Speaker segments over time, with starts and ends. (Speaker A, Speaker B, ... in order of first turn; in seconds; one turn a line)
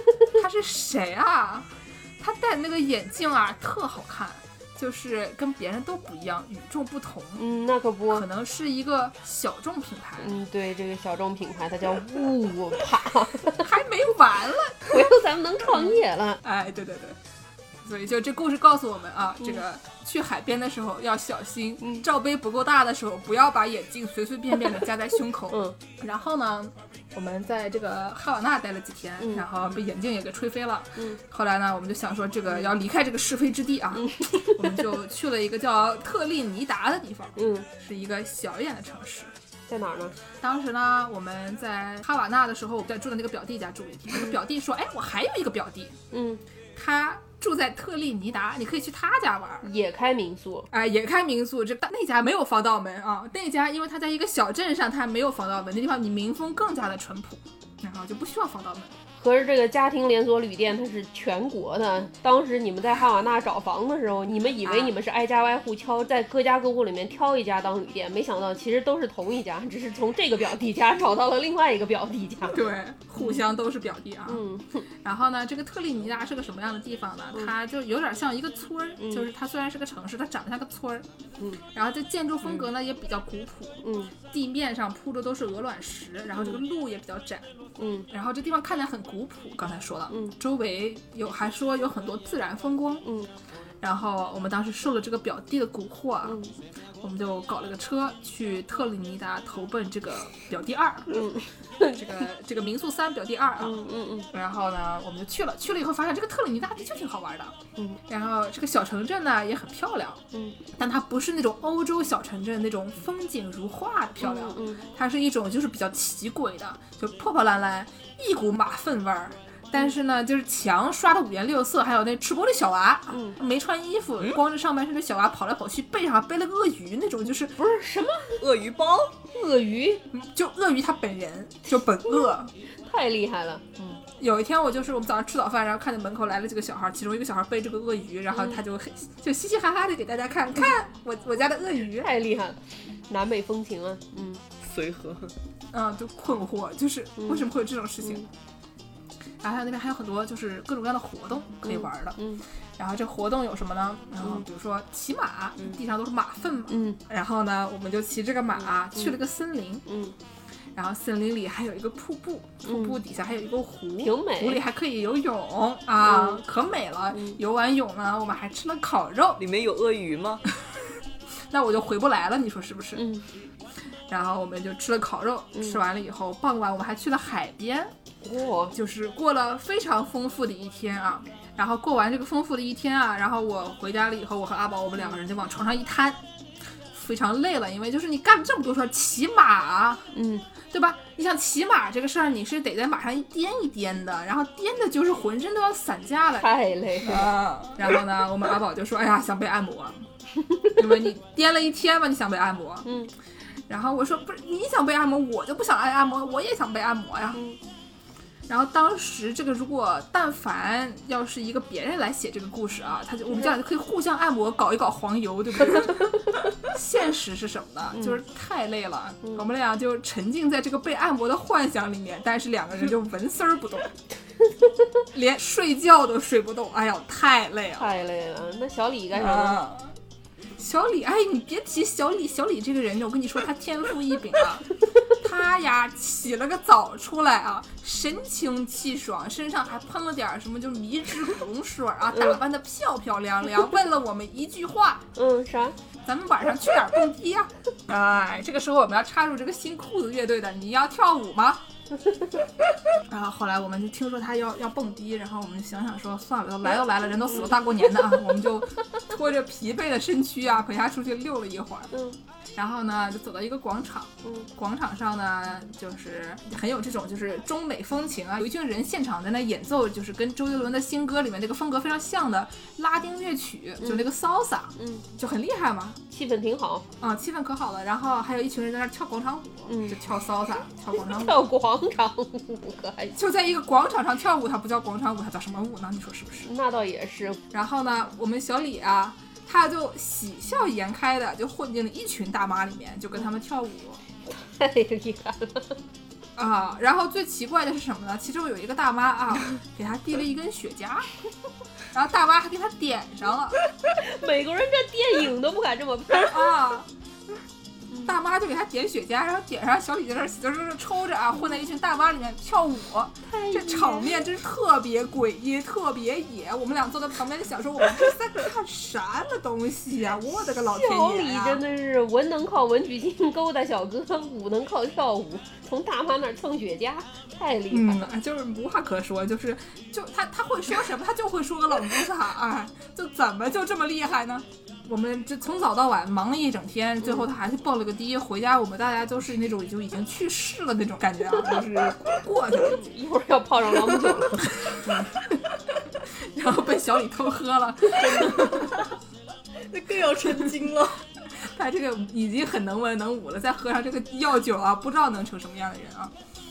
Speaker A: 0.3-7.5
Speaker B: 7.4-8.2
Speaker A: 8.1-10.4
Speaker B: 10.2-13.7
Speaker A: 13.5-15.0
Speaker B: 14.8-16.4
Speaker A: 15.7-17.2
Speaker A: 17.8-39.3
Speaker B: 25.5-25.8
Speaker B: 29.2-29.5
Speaker B: 34.1-34.6
Speaker B: 37.4-37.7
Speaker B: 39.7-40.2
Speaker A: 40.4-46.0
Speaker B: 46.1-46.4
Speaker A: 46.8-49.7
Speaker B: 49.6-50.7
Speaker A: 50.7-59.0
Speaker B: 59.2-72.6
Speaker A: 64.6-64.9
Speaker A: 72.5-74.4
Speaker B: 74.3-74.9
Speaker A: 75.0-81.1
Speaker B: 79.0-79.3
Speaker A: 81.7-93.0
Speaker B: 83.8-84.1
Speaker B: 87.8-88.1
Speaker B: 93.0-93.3
Speaker A: 93.8-96.4
Speaker B: 96.2-96.5
Speaker A: 97.0-101.2
Speaker B: 101.1-102.0
Speaker A: 101.8-107.6
Speaker B: 103.6-104.3
Speaker A: 108.1-110.2
Speaker B: 110.3-110.6
Speaker A: 110.8-127.6
Speaker B: 114.2-114.9
Speaker B: 123.1-123.4
Speaker B: 127.6-128.4
Speaker C: 128.4-129.2
Speaker B: 129.3-130.0
Speaker A: 130.1-132.5
Speaker B: 132.8-134.0
Speaker A: 134.2-142.1
Speaker B: 138.3-138.6
Speaker B: 142.0-144.4
Speaker C: 144.6-145.3
Speaker A: 145.7-148.3
Speaker B: 147.2-147.4
Speaker A: 149.4-152.2
Speaker B: 151.7-152.4
Speaker A: 152.8-159.8
Speaker B: 156.7-157.0
Speaker B: 159.9-160.2
Speaker A: 160.8-169.4
Speaker B: 162.6-163.0
Speaker B: 164.0-164.6
Speaker B: 166.0-166.4
Speaker C: 169.4-170.4
Speaker A: 171.5-173.1
Speaker B: 173.0-173.3
Speaker A: 174.1-177.9
Speaker B: 178.2-178.8
Speaker A: 178.7-186.2
Speaker A: 186.9-190.1
Speaker B: 190.1-190.5
Speaker A: 190.7-200.1
Speaker B: 196.4-197.4
Speaker B: 200.4-200.8
Speaker A: 200.8-202.9
Speaker B: 202.9-203.1
Speaker A: 203.7-207.4
Speaker A: 208.5-223.9
Speaker A: 225.1-227.9
Speaker B: 227.8-229.7
Speaker A: 229.1-230.0
Speaker A: 230.6-234.7
Speaker A: 235.2-245.1
Speaker B: 245.2-245.8
Speaker A: 246.1-251.6
Speaker A: 253.1-261.9
Speaker B: 261.9-262.2
Speaker A: 262.5-276.0
Speaker B: 273.8-274.1
Speaker B: 274.8-275.1
Speaker B: 276.1-276.9
Speaker A: 277.0-281.4
Speaker B: 279.7-280.0
Speaker B: 280.9-283.2
Speaker A: 283.1-286.5
Speaker B: 286.4-287.4
Speaker A: 287.5-294.0
Speaker B: 294.3-295.8
Speaker A: 296.4-301.1
Speaker A: 301.9-303.6
Speaker B: 303.9-306.5
Speaker A: 306.1-306.9
Speaker A: 308.0-321.6
Speaker B: 313.2-314.3
Speaker B: 320.5-328.1
Speaker A: 327.7-342.8
Speaker B: 342.6-344.9
Speaker A: 344.6-345.4
Speaker A: 346.1-348.8
Speaker B: 348.2-348.5
Speaker C: 348.5-348.8
Speaker C: 349.7-351.0
Speaker A: 351.4-356.1